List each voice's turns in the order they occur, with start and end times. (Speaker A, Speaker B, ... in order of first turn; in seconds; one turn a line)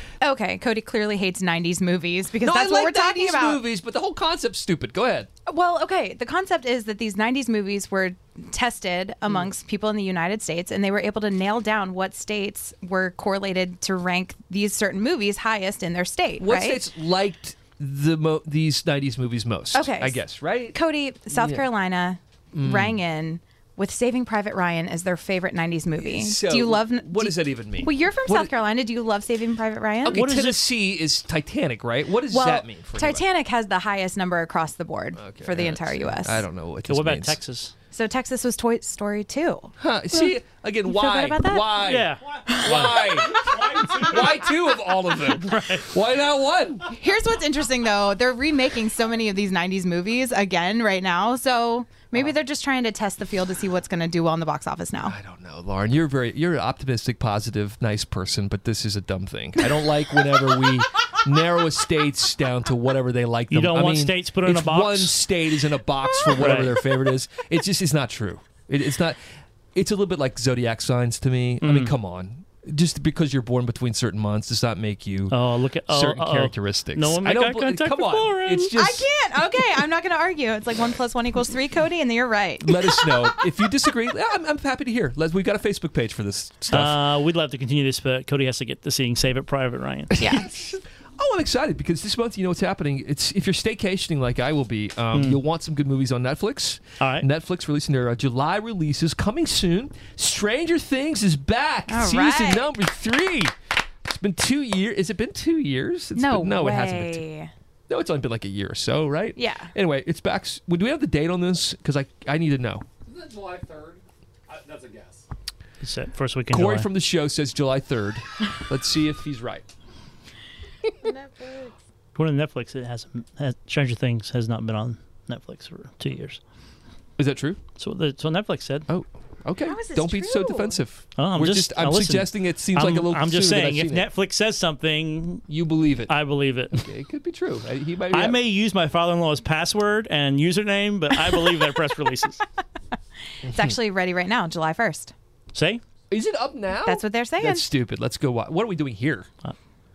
Speaker A: 0.2-3.6
Speaker B: 2.4-5.3
Speaker A: 5.5-16.9
Speaker B: 16.4-20.8
Speaker A: 19.7-30.2
Speaker B: 21.3-21.7
Speaker B: 22.5-23.0
Speaker B: 26.0-28.5
Speaker B: 30.0-33.2
Speaker C: 30.1-30.7
Speaker A: 32.3-36.4
Speaker B: 35.2-37.4
Speaker C: 36.9-37.7
Speaker A: 37.9-40.3
Speaker B: 39.8-46.9
Speaker A: 40.9-41.8
Speaker C: 41.8-44.6
Speaker A: 42.5-44.2
Speaker C: 45.2-45.9
Speaker A: 46.9-55.1
Speaker B: 55.0-69.2
Speaker C: 63.5-65.2
Speaker C: 66.4-66.8
Speaker B: 69.8-75.4
Speaker C: 71.6-72.0
Speaker C: 75.3-78.7
Speaker B: 75.9-79.1
Speaker A: 78.7-83.7
Speaker B: 82.6-87.0
Speaker C: 86.7-90.2
Speaker B: 90.1-103.5
Speaker A: 90.2-90.5
Speaker C: 95.1-95.4
Speaker C: 97.0-97.3
Speaker A: 101.9-102.8
Speaker B: 104.1-107.2
Speaker A: 106.2-107.5
Speaker B: 107.9-112.9
Speaker A: 109.4-109.7
Speaker D: 113.1-115.2
Speaker C: 115.8-116.9
Speaker B: 116.5-119.7
Speaker A: 121.0-121.7
Speaker C: 122.2-126.4
Speaker B: 127.2-127.6
Speaker C: 127.8-128.9
Speaker B: 128.9-134.1
Speaker A: 129.6-130.8
Speaker C: 131.2-135.5
Speaker B: 135.5-136.1
Speaker C: 136.1-136.9
Speaker B: 136.7-138.4
Speaker C: 138.1-142.4
Speaker B: 143.4-143.8
Speaker A: 143.4-145.1
Speaker C: 145.5-145.8
Speaker B: 146.1-149.3
Speaker A: 146.8-147.7